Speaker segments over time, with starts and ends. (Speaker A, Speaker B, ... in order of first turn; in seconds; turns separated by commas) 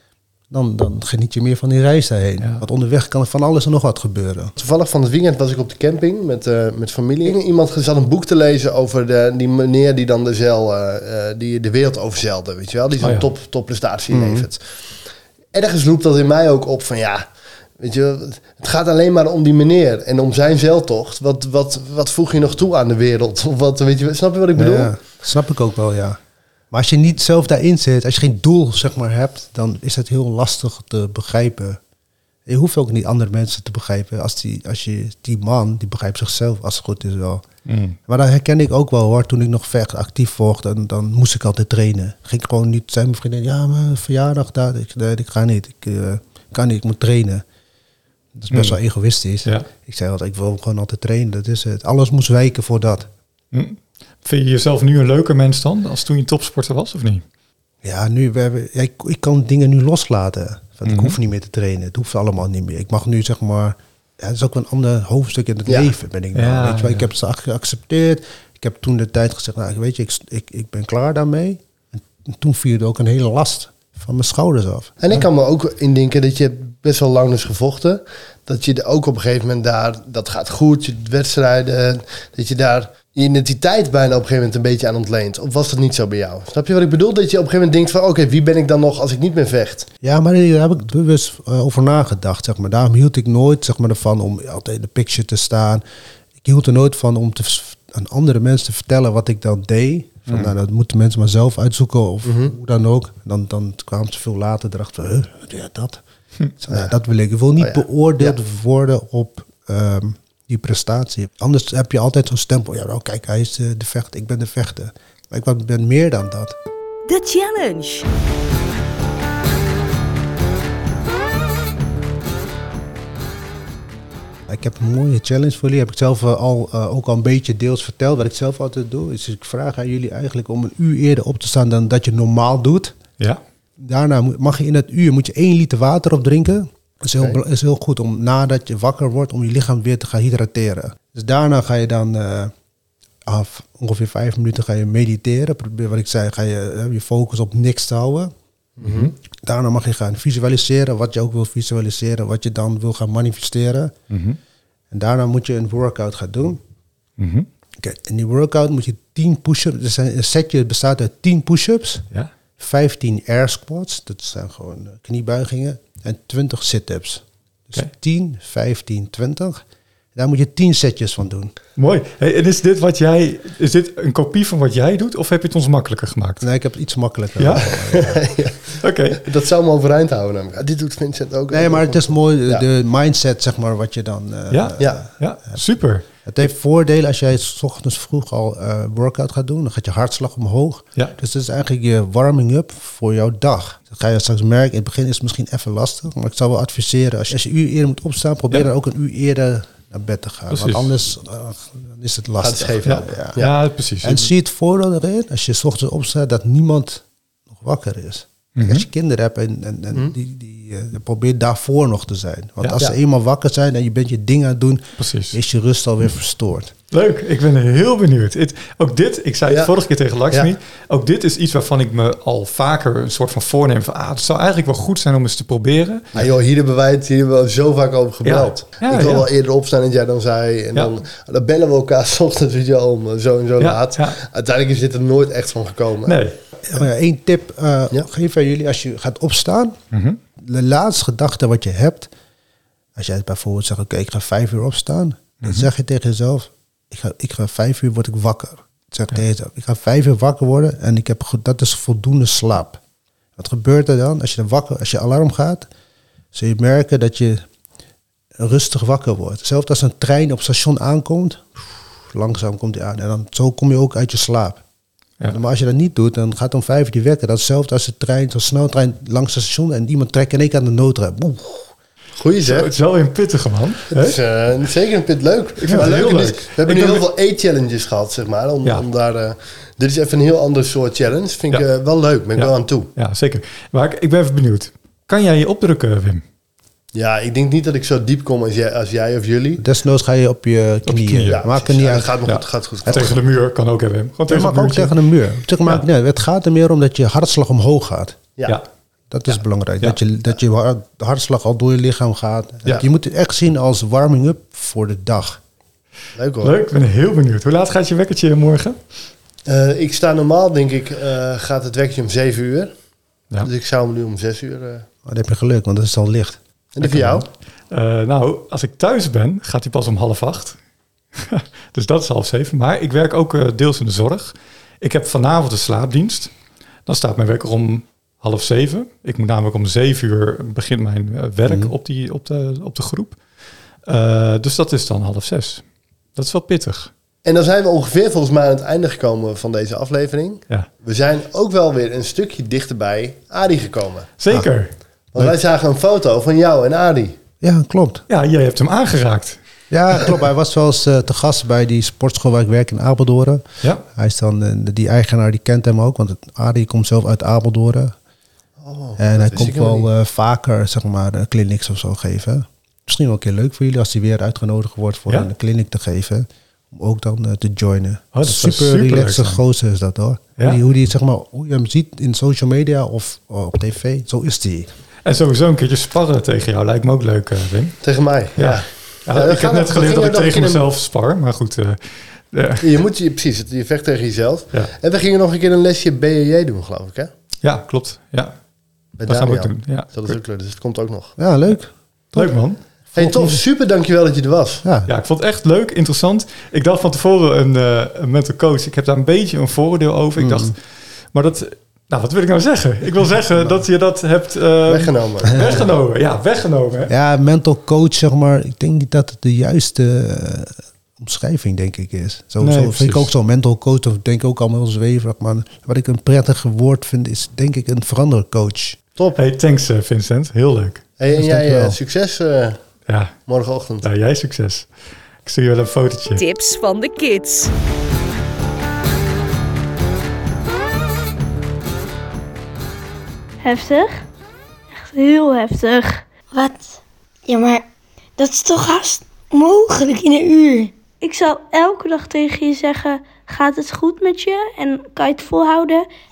Speaker A: 0.5-4.5, Speaker B: 4.6-14.7, Speaker C: 13.0-13.3, Speaker A: 14.1-14.5, Speaker B: 15.5-17.3, Speaker B: 17.8-24.9, Speaker A: 24.5-26.2, Speaker A: 26.7-31.8, Speaker A: 32.5-37.4, Speaker C: 37.6-38.0, Speaker A: 38.1-47.4, Speaker A: 48.3-53.1, Speaker C: 48.5-48.8, Speaker C: 53.5-57.2, Speaker A: 57.8-75.0, Speaker C: 60.8-61.1, Speaker C: 66.3-67.1, Speaker B: 75.0-89.9, Speaker A: 90.0-95.8, Speaker A: 96.4-106.0, Speaker C: 100.3-100.5, Speaker B: 102.2-102.5, Speaker A: 106.6-116.5, Speaker B: 107.6-108.4, Speaker D: 117.0-118.1, Speaker A: 124.5-133.0, Speaker A: 133.8-142.5, Speaker A: 143.2-148.3, Speaker B: 148.8-149.1, Speaker A: 148.9-153.9, Speaker C: 154.1-154.4, Speaker A: 154.9-156.6, Speaker C: 157.2-157.5, Speaker A: 157.8-162.1, Speaker A: 162.6-169.6, Speaker A: 170.1-171.5, Speaker C: 171.8-176.4, Speaker A: 176.4-178.2, Speaker C: 177.4-177.7, Speaker B: 177.7-182.6, Speaker C: 178.8-179.2, Speaker A: 181.5-185.1, Speaker C: 184.5-186.0, Speaker A: 186.2-203.5, Speaker C: 200.5-200.9, Speaker B: 202.4-203.5, Speaker C: 202.8-204.3, Speaker A: 204.0-216.7, Speaker C: 208.6-208.8, Speaker C: 215.0-215.4, Speaker C: 216.9-226.2, Speaker B: 226.2-236.2, Speaker C: 228.2-229.3, Speaker C: 230.7-231.0, Speaker C: 233.6-234.2, Speaker C: 236.1-236.3, Speaker A: 236.6-239.8, Speaker C: 239.9-240.2, Speaker A: 240.4-242.1, Speaker A: 242.9-252.8, Speaker C: 245.4-245.7, Speaker A: 253.4-255.7, Speaker A: 256.3-257.4, Speaker A: 258.4-261.5, Speaker A: 262.1-264.6, Speaker A: 265.3-271.7, Speaker B: 272.2-272.7, Speaker C: 272.4-274.2, Speaker B: 273.9-282.9, Speaker C: 275.6-277.0, Speaker C: 282.4-286.2, Speaker B: 286.9-289.6, Speaker A: 289.6-292.2, Speaker C: 290.9-291.4, Speaker B: 291.3-293.2, Speaker C: 292.2-294.9, Speaker A: 294.3-298.2, Speaker A: 299.1-305.4, Speaker B: 306.2-306.5, Speaker C: 306.4-308.8, Speaker B: 309.4-312.7, Speaker B: 313.4-314.9, Speaker A: 315.0-316.4, Speaker B: 316.7-317.2, Speaker C: 316.8-317.2, Speaker C: 317.7-320.6, Speaker C: 321.1-326.3, Speaker C: 326.9-333.2, Speaker A: 331.5-331.7, Speaker C: 333.9-335.6, Speaker C: 336.1-336.9, Speaker B: 337.2-344.1, Speaker C: 344.2-344.7, Speaker B: 345.1-347.1, Speaker A: 347.4-348.0, Speaker C: 348.1-349.4, Speaker A: 349.7-357.9, Speaker B: 358.6-359.9, Speaker A: 359.0-374.7, Speaker C: 368.1-369.4, Speaker C: 375.1-377.8, Speaker B: 377.8-380.6, Speaker C: 378.4-382.7, Speaker B: 382.6-387.1, Speaker C: 387.4-388.4, Speaker B: 389.0-391.1, Speaker C: 389.1-390.2, Speaker A: 391.2-392.3, Speaker C: 392.1-392.6, Speaker A: 392.9-393.4, Speaker B: 392.9-394.6, Speaker A: 394.6-394.9, Speaker C: 394.9-400.6, Speaker A: 400.2-400.5, Speaker C: 401.1-406.9, Speaker B: 404.7-405.6, Speaker A: 405.3-405.6, Speaker A: 406.9-418.8, Speaker C: 412.4-413.1, Speaker C: 419.1-420.8, Speaker B: 421.0-422.6, Speaker A: 421.1-421.8, Speaker C: 422.9-423.1, Speaker B: 423.3-423.9, Speaker C: 423.8-424.7, Speaker C: 425.2-426.2, Speaker D: 426.1-427.5, Speaker E: 433.4-434.1, Speaker E: 434.7-436.0, Speaker F: 436.3-437.6, Speaker F: 438.2-440.7, Speaker E: 441.0-445.9